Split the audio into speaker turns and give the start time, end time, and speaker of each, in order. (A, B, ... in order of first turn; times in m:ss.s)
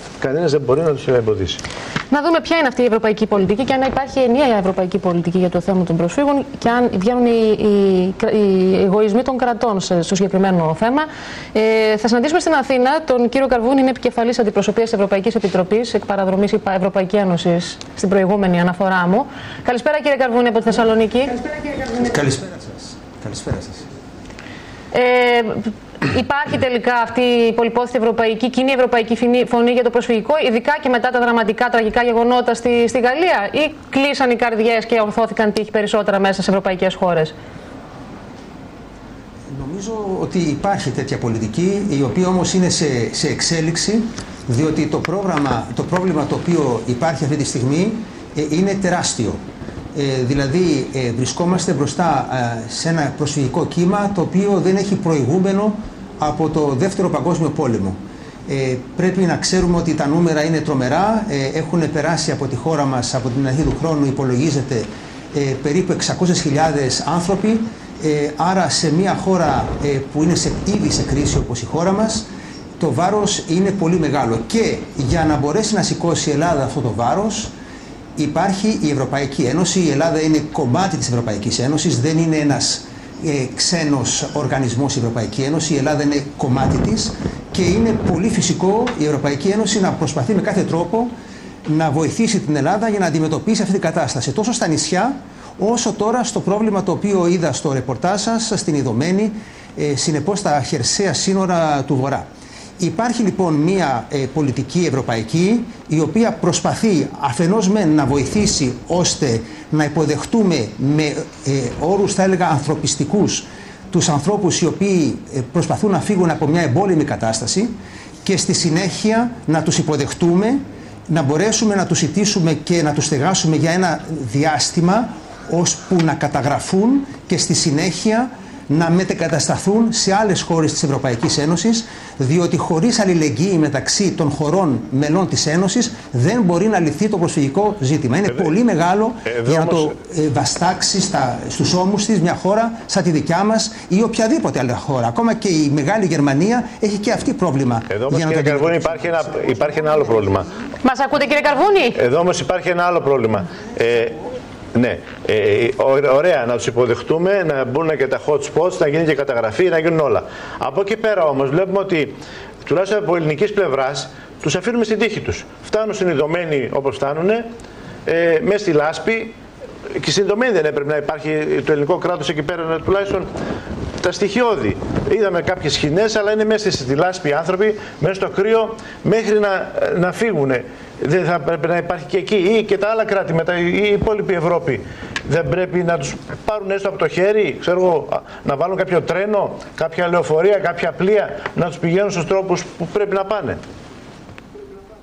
0:00.2-0:01.6 A
0:02.1-0:21.4 B
0:21.9-0:23.8 C
0:24.9-0:37.3 B
0:39.5-0:49.4 C
0:49.9-1:17.5 C
1:18.2-1:31.1 C
1:31.6-1:42.3 C
1:42.8-1:57.7 C
1:58.2-2:29.4 C
2:19.2-2:19.9 A
2:27.9-2:30.5 A
2:30.8-2:32.0 B
2:31.9-2:34.2 A
2:34.7-2:47.5 A
2:48.0-2:49.4 A
2:49.9-2:53.3 A
2:54.0-3:13.6 A